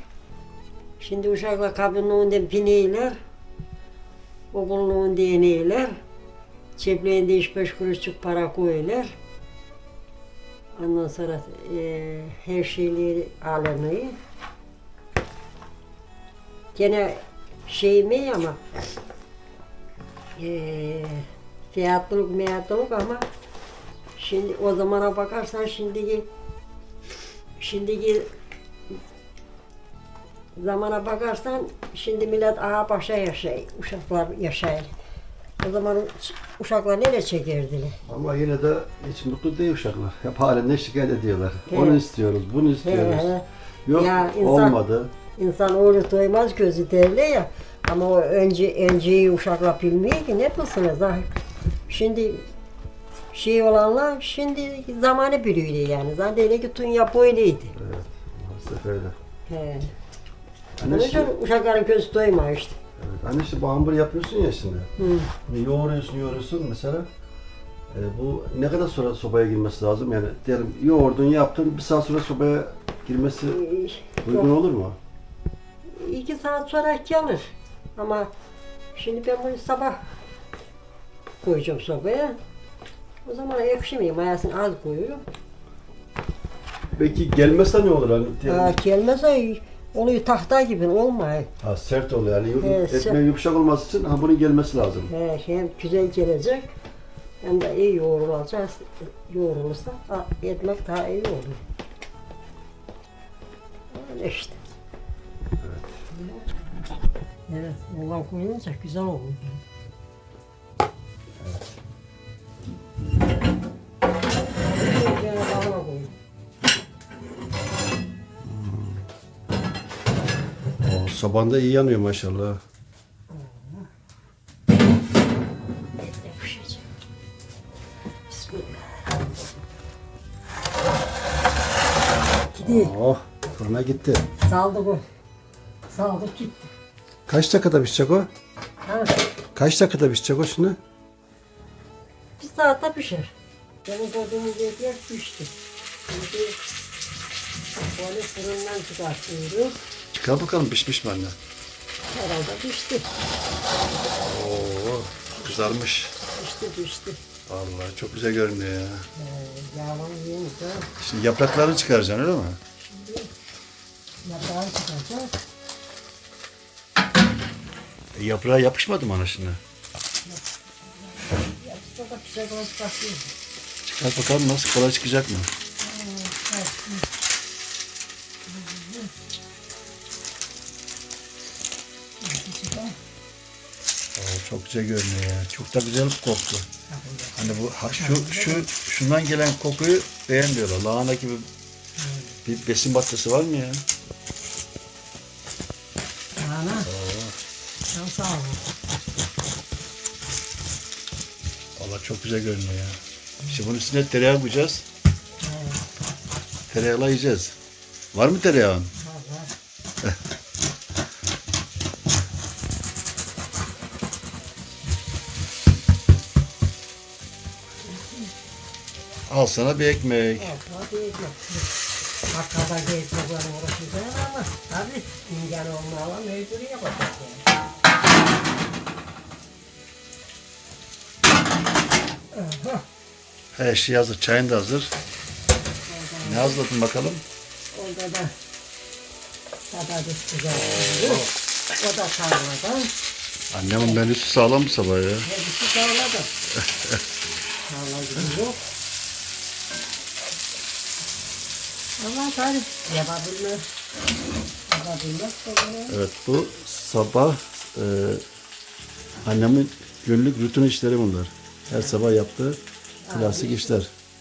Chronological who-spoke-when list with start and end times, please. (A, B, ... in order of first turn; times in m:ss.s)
0:01.0-0:03.2 A
0:04.5-0:06.0 A
0:06.8-0:09.2 A
0:10.8-0:14.2 A
0:16.8-0:18.9 A
0:20.4-0:23.3 A
0:24.2-0:26.3 A
0:27.6-0:28.3 A
0:30.6-0:34.9 A
0:35.6-0:38.0 A
0:38.1-0:43.3 B
0:41.7-0:42.0 A
0:42.8-0:44.8 A
0:43.9-0:45.1 B
0:45.4-0:51.3 A
0:51.9-0:52.4 A
0:53.3-0:57.7 A
0:57.7-0:59.2 B
0:59.5-0:59.9 A
1:00.8-1:01.3 B
1:00.9-1:02.8 A
1:03.0-1:04.9 B
1:05.0-1:05.3 A
1:05.5-1:07.1 B
1:07.9-1:13.6 B
1:13.5-1:14.5 A
1:14.2-1:15.0 B
1:15.9-1:18.3 A
1:19.0-1:20.0 A
1:21.4-1:22.4 A
1:23.2-1:25.2 A
1:26.9-1:28.8 B
1:28.5-1:31.5 A
1:31.6-1:35.1 B
1:32.6-1:33.2 A
1:35.1-1:36.7 A
1:37.4-1:41.6 A
1:43.9-1:44.6 A
1:45.6-1:46.0 B
1:46.1-1:46.4 A
1:47.5-1:49.6 A
1:51.4-1:51.7 B
1:54.6-1:56.1 A
1:58.4-1:59.1 B
2:00.8-2:02.6 B
2:03.3-2:03.9 A
2:06.0-2:06.9 A
2:08.3-2:09.1 A
2:12.5-2:12.9 A
2:12.6-2:14.2 B
2:14.4-2:15.0 A
2:15.9-2:16.7 A
2:17.3-2:18.3 B
2:18.8-2:19.2 A
2:19.6-2:20.8 B
2:22.4-2:23.3 A
2:23.8-2:25.5 A
2:26.1-2:26.6 A
2:27.8-2:29.8 A
2:30.1-2:31.4 B
2:32.1-2:33.1 A
2:34.2-2:36.2 B
2:35.3-2:37.2 A
2:37.5-2:39.1 B
2:39.2-2:40.9 A
2:41.0-2:42.6 B
2:42.8-2:43.3 A
2:44.2-2:45.4 A
2:48.2-2:49.6 B
2:50.3-2:53.3 A
2:53.8-2:55.5 B
2:55.8-2:57.1 A
2:58.5-2:59.1 A
3:02.2-3:03.0 A
3:04.2-3:06.7 B
3:06.9-3:08.7 A
3:07.4-3:11.5 B
3:12.0-3:12.4 A
3:12.4-3:13.8 B
3:16.4-3:16.9 A
3:16.8-3:17.4 B
3:17.9-3:18.7 A
3:21.8-3:24.8 B
3:25.4-3:25.8 A
3:26.7-3:27.6 B
3:28.1-3:28.9 B
3:29.0-3:29.5 A
3:39.3-3:40.5 B
3:40.4-3:41.7 A
3:42.3-3:47.4 A
3:52.3-3:52.8 A
3:53.6-3:54.9 B
3:55.9-3:56.6 A
3:56.2-3:57.2 B
3:57.7-3:58.3 A
3:59.7-4:02.9 A
4:03.5-4:05.3 B
4:05.2-4:06.3 A
4:06.6-4:07.0 B
4:07.6-4:08.6 A
4:12.0-4:13.6 A
4:14.7-4:16.0 A
4:15.9-4:18.2 B
4:19.2-4:22.6 B
4:21.7-4:22.0 A
4:23.0-4:23.8 A
4:23.1-4:23.9 B